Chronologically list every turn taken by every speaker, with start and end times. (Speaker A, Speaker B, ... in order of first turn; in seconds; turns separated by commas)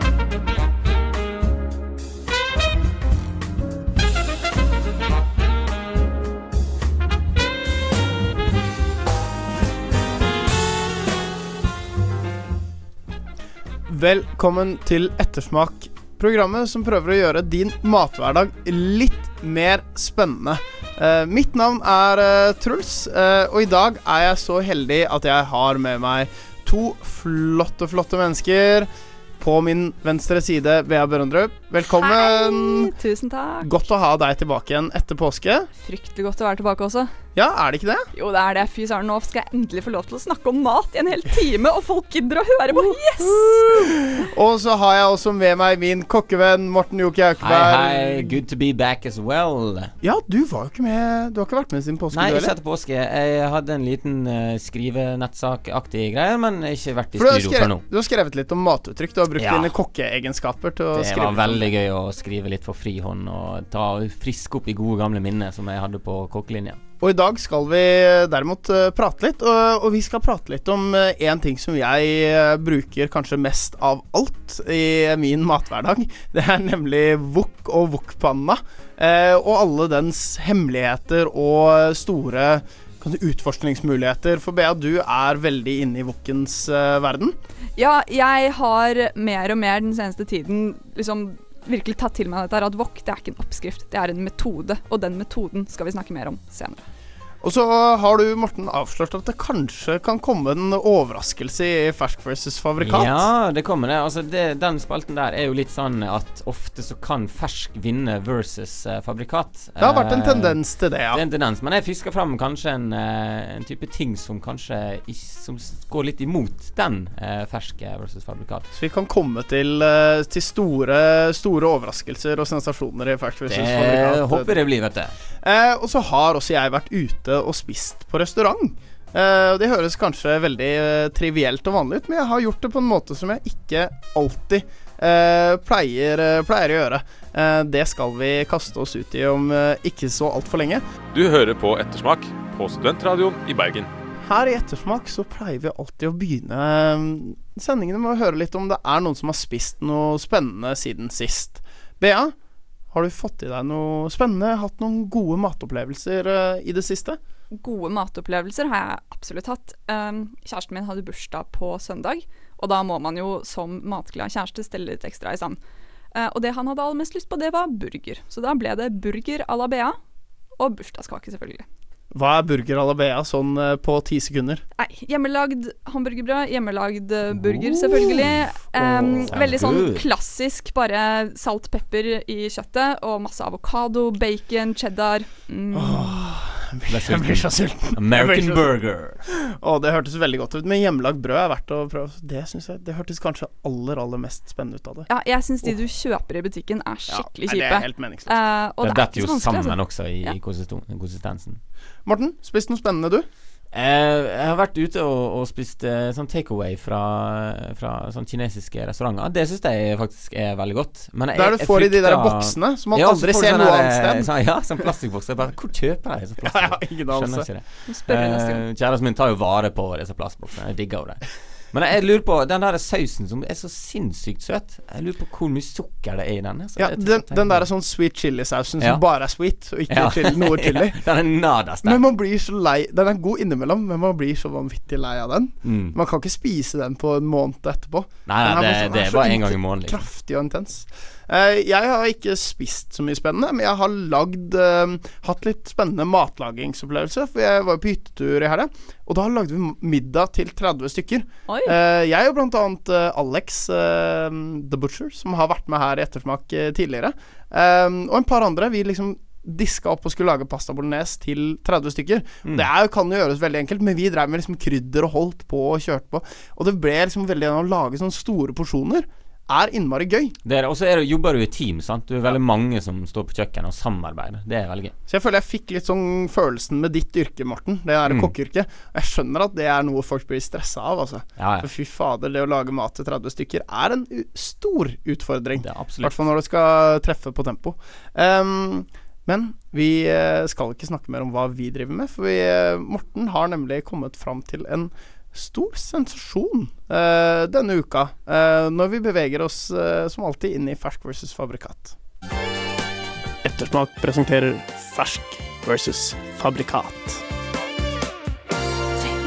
Speaker A: 13.9-32.9, Speaker B: 32.0-33.8, Speaker A: 33.6-35.7, Speaker B: 35.8-37.1, Speaker A: 37.3-38.1, Speaker B: 38.1-43.9, Speaker A: 42.7-48.4, Speaker C: 47.4-49.9, Speaker A: 50.0-52.5, Speaker C: 52.1-57.8, Speaker A: 57.1-61.7, Speaker C: 59.4-59.7, Speaker C: 60.9-66.8, Speaker A: 67.0-87.4, Speaker B: 87.8-96.8, Speaker A: 97.4-103.2, Speaker C: 102.8-110.6, Speaker A: 109.8-111.2, Speaker C: 111.1-118.7, Speaker A: 118.7-124.6, Speaker C: 123.5-125.2, Speaker A: 125.4-140.8, Speaker D: 141.1-143.9, Speaker A: 144.2-152.3, Speaker A: 152.9-157.2, Speaker B: 157.5-165.6, Speaker B: 166.1-170.0, Speaker B: 170.6-171.6, Speaker A: 172.1-174.6, Speaker B: 174.8-186.2, Speaker C: 177.3-180.1, Speaker A: 185.7-188.7, Speaker C: 186.9-189.2, Speaker A: 189.3-195.1, Speaker B: 195.1-200.3, Speaker A: 197.1-198.3, Speaker C: 198.8-201.6, Speaker A: 202.1-203.3, Speaker C: 203.7-227.7, Speaker A: 211.3-214.3, Speaker A: 216.4-217.5, Speaker B: 217.9-218.6, Speaker A: 226.8-231.0, Speaker C: 229.9-232.0, Speaker A: 231.8-270.3, Speaker C: 235.6-235.9, Speaker C: 238.2-240.0, Speaker B: 251.5-251.7, Speaker C: 270.4-274.9, Speaker A: 275.1-301.9, Speaker C: 278.1-278.3, Speaker C: 281.4-281.7, Speaker C: 285.6-286.2, Speaker A: 303.4-307.2